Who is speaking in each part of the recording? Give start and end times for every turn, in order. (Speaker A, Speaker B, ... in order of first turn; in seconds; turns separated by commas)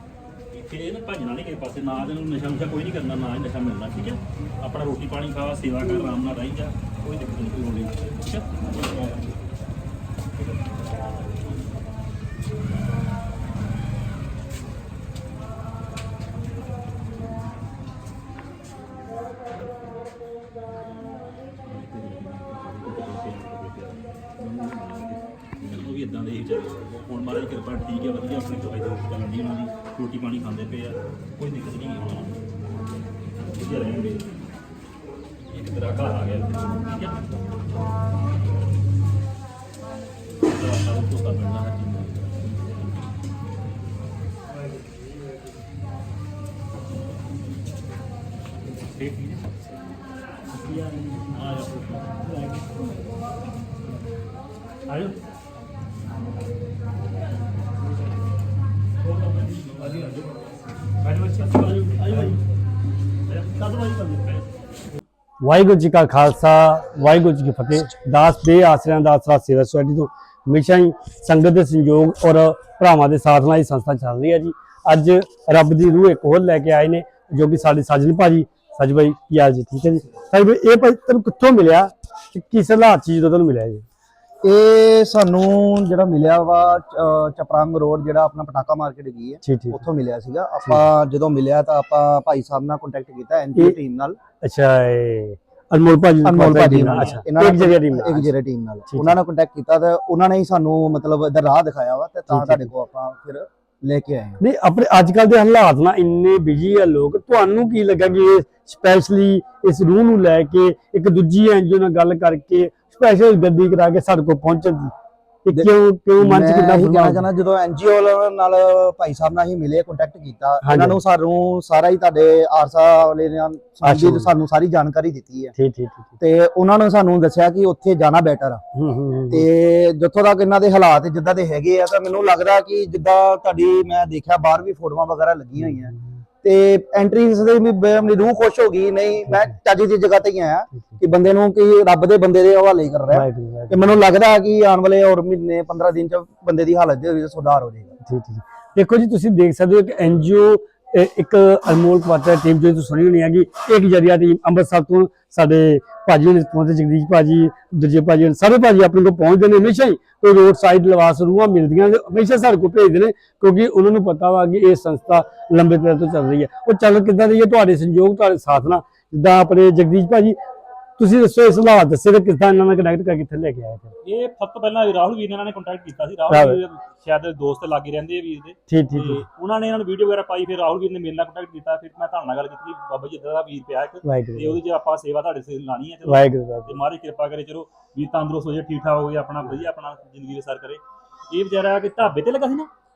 Speaker A: 0.5-9.4, Speaker A: 10.4-11.7, Speaker A: 21.6-32.5, Speaker A: 33.4-34.3, Speaker A: 35.5-37.1, Speaker A: 40.4-43.2, Speaker A: 48.7-49.7, Speaker B: 50.5-51.2, Speaker A: 51.3-52.3, Speaker B: 52.4-52.7, Speaker A: 54.9-55.2, Speaker A: 59.0-60.5, Speaker A: 61.0-62.4, Speaker A: 63.3-64.6, Speaker B: 65.4-83.8, Speaker C: 84.4-94.2, Speaker B: 89.4-89.8, Speaker B: 94.4-98.3, Speaker C: 96.2-104.4, Speaker A: 96.7-97.2, Speaker B: 98.9-99.2, Speaker B: 102.3-102.7, Speaker B: 104.4-114.9, Speaker B: 115.5-117.2, Speaker C: 115.5-125.5, Speaker B: 120.6-121.0, Speaker B: 123.8-124.3, Speaker B: 125.6-126.1, Speaker C: 126.2-128.6, Speaker B: 128.8-129.5, Speaker C: 129.3-147.9, Speaker B: 135.6-136.2, Speaker B: 139.3-139.5, Speaker B: 143.1-144.0, Speaker B: 148.0-170.3, Speaker B: 171.0-173.9, Speaker A: 174.0-192.7, Speaker B: 176.3-176.6, Speaker B: 178.7-179.2, Speaker B: 184.0-184.6, Speaker B: 186.1-186.8